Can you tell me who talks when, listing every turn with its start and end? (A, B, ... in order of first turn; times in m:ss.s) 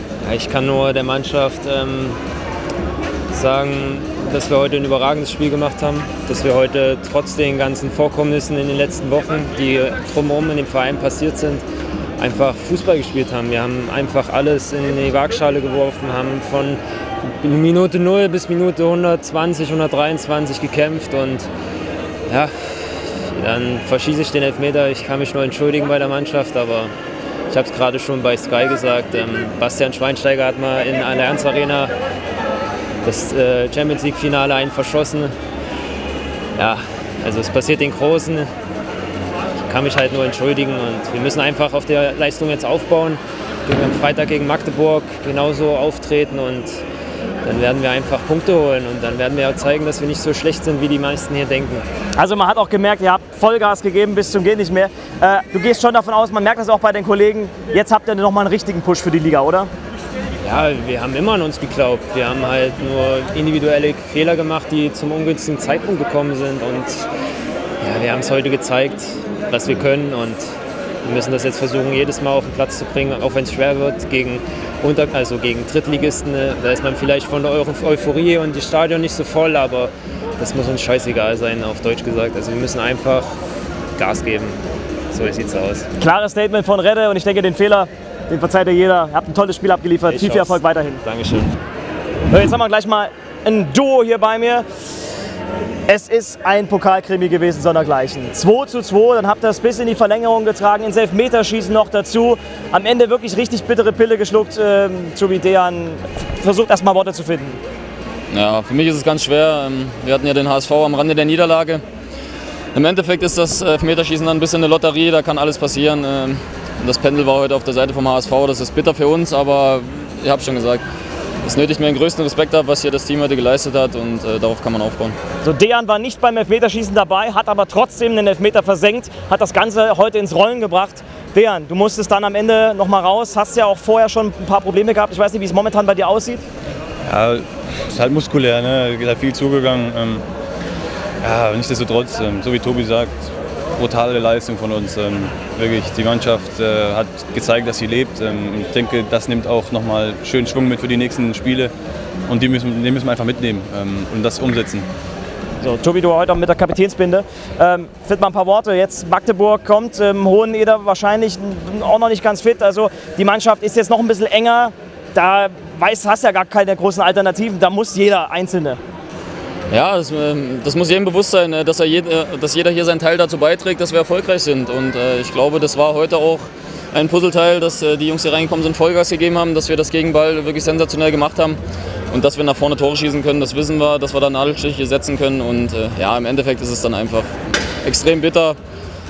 0:00.2-0:02.2 A
0:03.3-0:11.6 A
0:12.2-0:21.5 A
0:22.3-0:26.9 A
0:27.5-0:31.9 A
0:33.0-0:35.3 A
0:36.6-0:38.5 A
0:39.7-0:46.8 A
0:47.4-0:51.8 A
0:52.2-0:59.7 B
1:00.4-1:07.1 A
1:07.8-1:10.4 A
1:11.0-1:23.4 A
1:24.0-1:25.9 A
1:26.0-1:31.0 B
1:30.1-1:31.6 A
1:32.3-1:34.7 B
1:35.9-1:47.6 B
1:48.3-1:51.8 C
1:52.7-2:00.8 C
2:01.4-2:05.2 C
2:05.4-2:16.4 B
2:17.1-2:20.2 D
2:21.2-2:31.7 D
2:32.3-2:34.9 D
2:35.6-2:48.8 B
2:49.7-3:01.6 C
3:02.1-3:08.6 C